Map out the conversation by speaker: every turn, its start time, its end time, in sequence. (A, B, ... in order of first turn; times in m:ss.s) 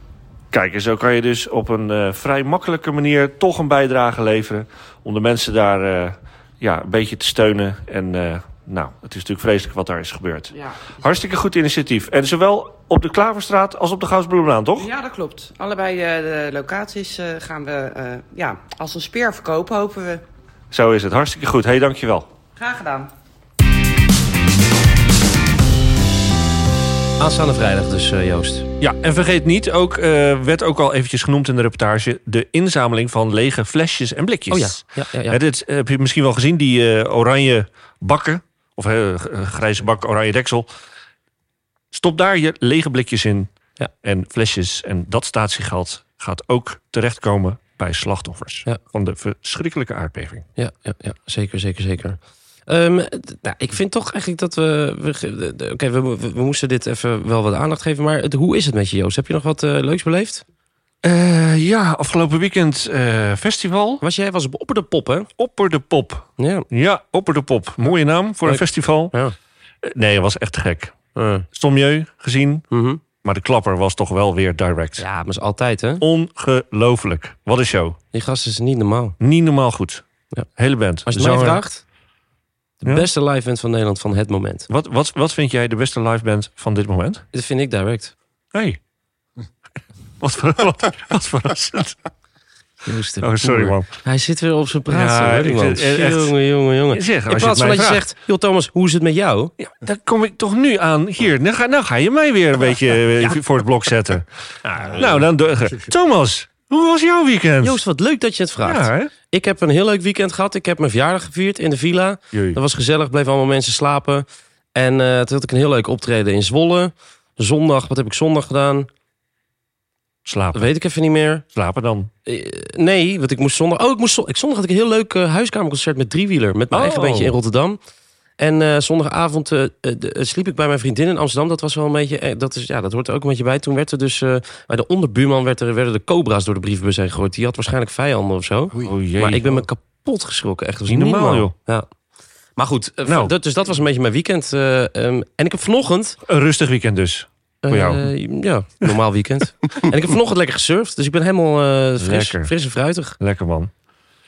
0:00.5-0:14.9 A
0:10.5-0:10.9 B
0:14.8-0:20.2 B
0:20.7-0:22.3 A
0:22.6-0:23.1 B
0:27.2-0:28.6 C
0:28.8-0:40.7 A
0:34.5-0:35.4 C
0:41.9-0:43.5 A
0:44.0-0:50.4 A
0:50.6-1:00.4 C
1:01.0-1:04.0 A
1:04.0-1:05.3 C
1:05.4-1:09.1 A
1:06.4-1:06.6 C
1:08.4-1:09.3 C
1:09.8-1:10.9 A
1:11.1-1:11.4 C
1:11.5-1:12.6 A
1:12.7-1:13.0 C
1:13.2-1:15.0 A
1:15.0-1:16.0 C
1:16.0-1:18.0 A
1:18.1-1:19.2 C
1:19.2-1:20.0 A
1:20.6-1:21.6 A
1:21.1-1:21.8 C
1:22.8-1:24.7 C
1:24.7-1:27.2 A
1:27.3-1:28.1 C
1:30.2-1:32.0 A
1:32.9-1:39.5 C
1:33.2-1:33.9 A
1:34.9-1:36.3 A
1:36.9-1:38.0 A
1:39.6-1:47.8 A
1:47.6-1:58.9 C
1:48.6-1:49.1 A
1:52.3-1:52.6 A
2:00.2-2:00.7 A
2:00.5-2:01.4 C
2:01.6-2:02.1 A
2:02.2-2:07.8 C
2:06.7-2:07.4 A
2:08.4-2:21.9 C
2:18.8-2:19.6 A
2:20.9-2:21.5 A
2:22.6-2:26.2 C
2:23.1-2:23.3 A
2:26.2-2:28.1 A
2:27.6-2:33.2 C
2:32.0-2:32.5 A
2:33.2-2:33.7 A